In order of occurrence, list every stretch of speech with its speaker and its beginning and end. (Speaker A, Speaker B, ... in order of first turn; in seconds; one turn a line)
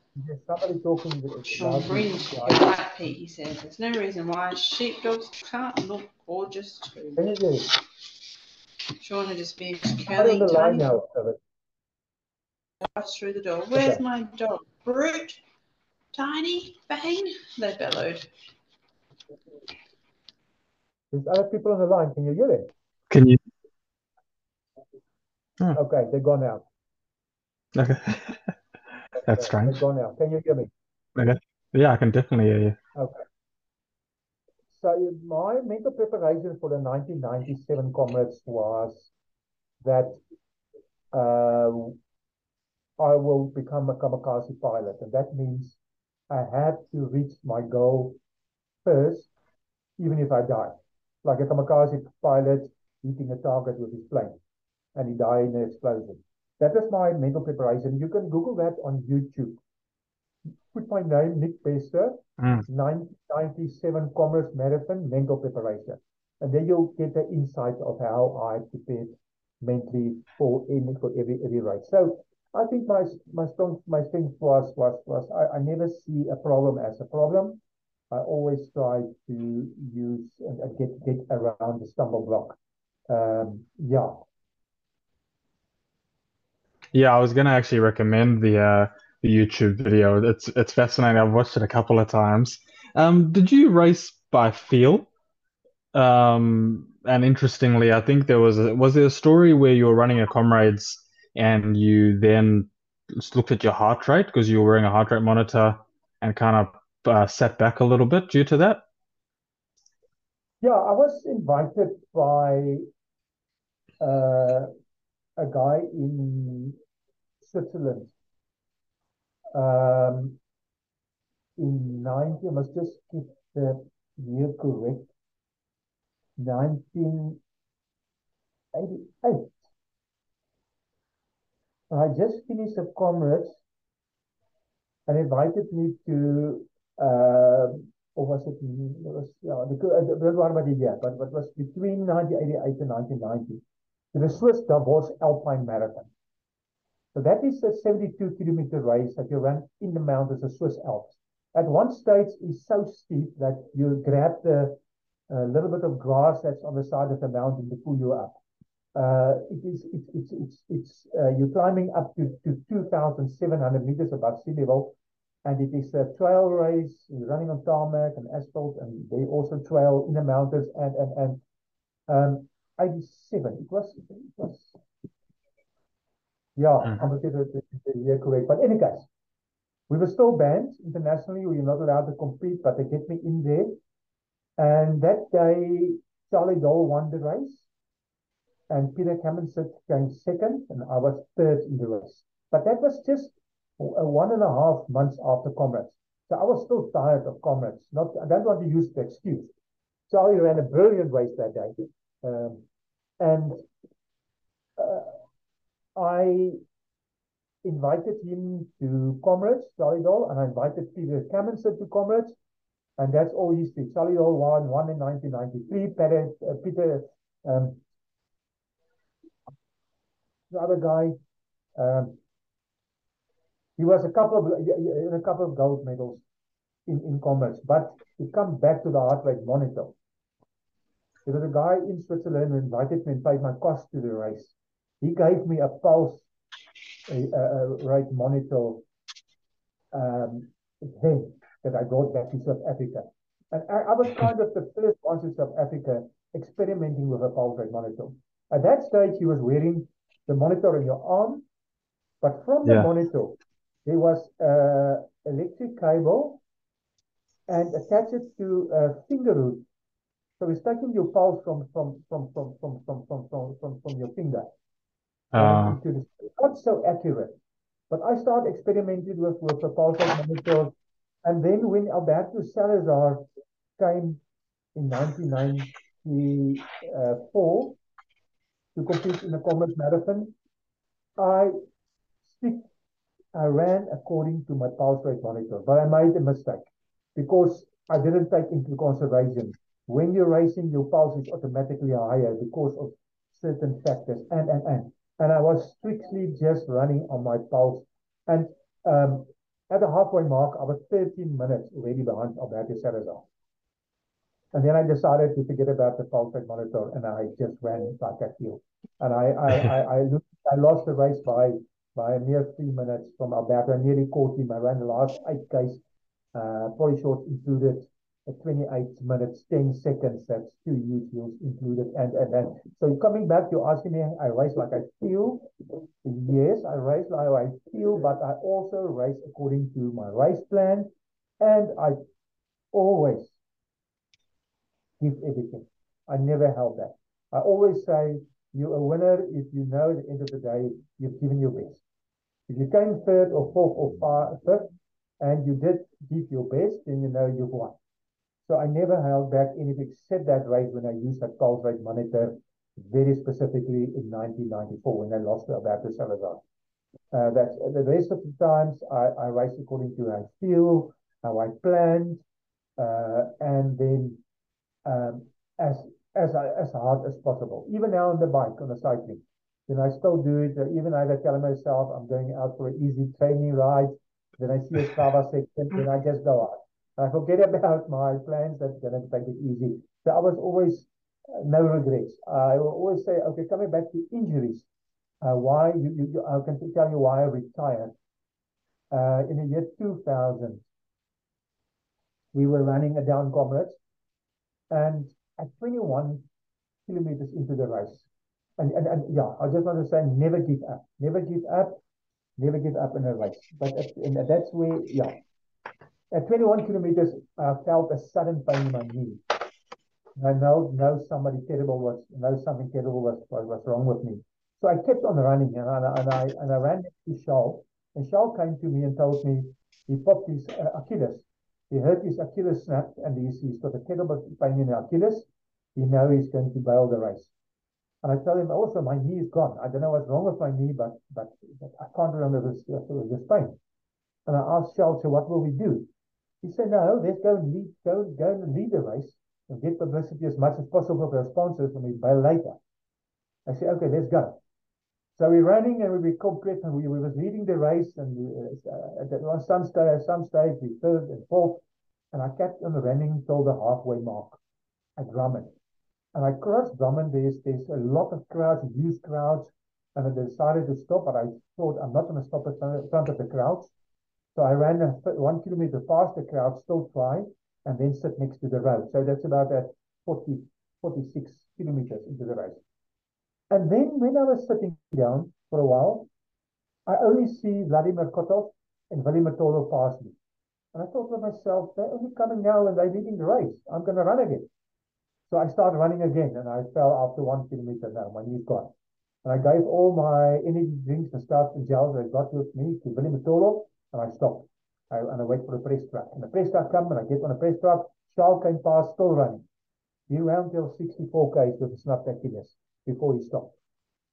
Speaker A: 0.2-2.7
Speaker B: 1.5-7.3
Speaker A: 7.2-7.7
Speaker B: 9.0-10.9
Speaker A: 10.1-11.4
Speaker B: 12.8-15.4
Speaker A: 13.7-14.0
Speaker B: 16.1-18.3
Speaker A: 21.1-22.7
Speaker C: 23.1-23.4
Speaker A: 25.7-26.6
Speaker C: 27.8-28.5
Speaker C: 29.2-29.8
Speaker A: 29.2-30.7
Speaker C: 31.1-32.8
Speaker A: 33.0-33.2
Speaker A: 34.7-39.1
Speaker A: 39.8-40.2
Speaker A: 41.1-42.0
Speaker A: 43.0-45.8
Speaker A: 46.3-48.2
Speaker A: 48.9-49.3
Speaker A: 50.0-54.4
Speaker A: 55.0-59.6
Speaker A: 60.7-77.6
Speaker C: 62.4-62.6
Speaker A: 78.1-82.6
Speaker A: 83.1-84.1
Speaker C: 86.9-95.1
Speaker C: 95.9-108.8
Speaker A: 110.6-112.8
Speaker A: 114.0-114.7
Speaker A: 115.4-116.8
Speaker A: 117.4-118.1
Speaker A: 119.5-120.4
Speaker A: 121.6-125.1
Speaker A: 126.4-127.4
Speaker A: 128.7-129.6
Speaker A: 131.9-133.6
Speaker A: 135.1-143.6
Speaker A: 144.1-146.1
Speaker A: 147.1-154.8
Speaker A: 155.3-158.4
Speaker A: 158.9-171.4
Speaker A: 172.1-174.8
Speaker A: 176.6-179.1
Speaker A: 179.9-183.8
Speaker A: 184.6-187.7
Speaker A: 188.7-199.5
Speaker A: 200.1-202.6
Speaker A: 203.2-203.6
Speaker A: 204.8-205.2
Speaker A: 206.0-206.6
Speaker A: 207.6-212.3
Speaker A: 213.0-217.8
Speaker A: 220.5-221.2
Speaker A: 221.8-222.2
Speaker A: 223.8-226.2
Speaker A: 226.9-229.9
Speaker A: 231.3-236.3
Speaker A: 237.1-238.8
Speaker A: 239.9-251.4
Speaker A: 252.2-256.4
Speaker A: 257.5-259.6
Speaker A: 260.4-264.5
Speaker C: 265.3-265.8
Speaker A: 265.4-267.4
Speaker A: 267.9-273.2
Speaker A: 273.8-274.2
Speaker A: 274.8-277.8
Speaker A: 278.8-280.3
Speaker A: 281.2-281.6
Speaker A: 282.3-282.7
Speaker A: 283.3-303.3
Speaker A: 304.5-315.8
Speaker A: 316.3-325.5
Speaker A: 326.0-330.9
Speaker A: 331.4-332.0
Speaker A: 332.7-333.4
Speaker A: 335.0-341.8
Speaker A: 342.5-347.8
Speaker A: 348.5-356.4
Speaker A: 357.1-362.2
Speaker A: 362.8-364.2
Speaker A: 364.9-384.7
Speaker A: 385.2-387.9
Speaker A: 388.9-390.6
Speaker A: 392.3-393.8
Speaker A: 394.7-396.2
Speaker A: 396.9-401.8
Speaker A: 402.4-405.2
Speaker A: 406.1-409.2
Speaker A: 410.2-427.3
Speaker A: 428.0-433.6
Speaker A: 434.3-435.9
Speaker A: 436.4-442.6
Speaker A: 443.5-444.4
Speaker A: 445.2-454.4
Speaker A: 455.0-455.5
Speaker A: 456.1-463.7
Speaker A: 464.4-472.6
Speaker A: 473.5-476.1
Speaker A: 476.9-480.1
Speaker A: 480.7-484.5
Speaker A: 485.3-488.7
Speaker A: 489.2-499.4
Speaker A: 500.1-503.6